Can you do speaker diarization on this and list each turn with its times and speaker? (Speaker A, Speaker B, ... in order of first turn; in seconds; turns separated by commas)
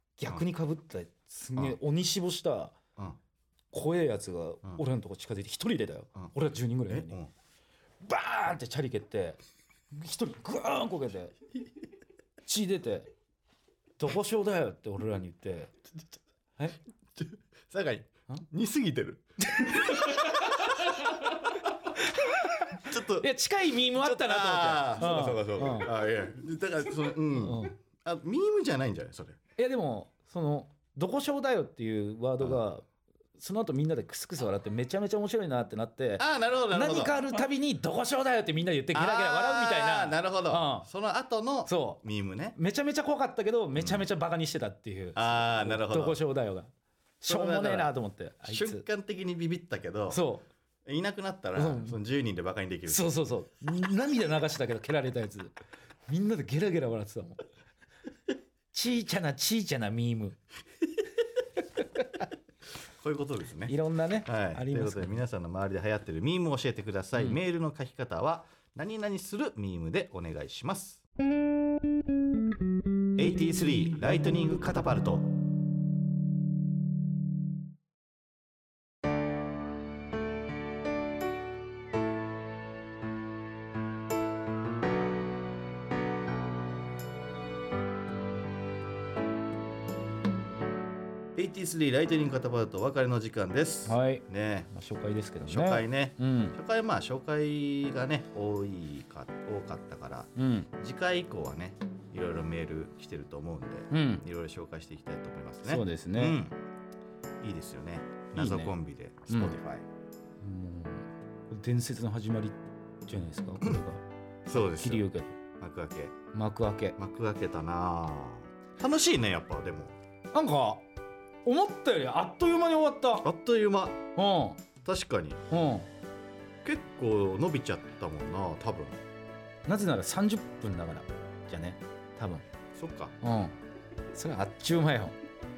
Speaker A: 0.2-2.8, Speaker A: 3.7-7.2, Speaker B: 6.9-7.3, Speaker A: 8.0-9.4, Speaker A: 9.9-11.3, Speaker A: 12.4-13.1, Speaker A: 14.0-15.7, Speaker B: 17.2-20.3, Speaker A: 19.6-21.2, Speaker A: 21.9-25.9, Speaker B: 22.8-23.3, Speaker B: 23.9-29.4, Speaker A: 27.4-27.7, Speaker A: 29.6-32.9, Speaker A: 33.4-40.9, Speaker B: 36.2-37.2, Speaker B: 38.9-42.6, Speaker A: 41.7-42.0, Speaker A: 42.6-48.8, Speaker B: 43.8-44.1, Speaker B: 45.2-46.2, Speaker B: 47.3-47.9, Speaker B: 48.4-50.2, Speaker A: 50.1-50.5, Speaker B: 50.9-53.1, Speaker A: 51.6-52.0, Speaker A: 52.9-55.5, Speaker A: 56.1-57.5, Speaker A: 58.7-60.4, Speaker A: 61.8-62.3, Speaker B: 62.8-71.0, Speaker A: 63.7-65.2, Speaker B: 73.2-75.3, Speaker B: 91.4-94.7, Speaker A: 93.9-96.6, Speaker B: 95.4-106.6, Speaker A: 100.4-100.7, Speaker A: 103.9-104.2, Speaker A: 105.7-106.4, Speaker B: 107.4-109.8, Speaker A: 108.3-108.7, Speaker A: 109.3-109.6, Speaker A: 110.4-115.4, Speaker B: 114.5-115.1, Speaker B: 115.6-116.2, Speaker A: 116.3-117.0, Speaker B: 117.0-120.0, Speaker A: 120.3-120.8, Speaker A: 121.5-123.3, Speaker B: 123.2-124.1, Speaker A: 124.2-124.6, Speaker B: 124.8-125.4, Speaker A: 125.5-125.9, Speaker B: 126.7-129.0, Speaker A: 129.7-132.4, Speaker B: 132.7-133.1, Speaker A: 133.2-133.6, Speaker A: 134.1-135.2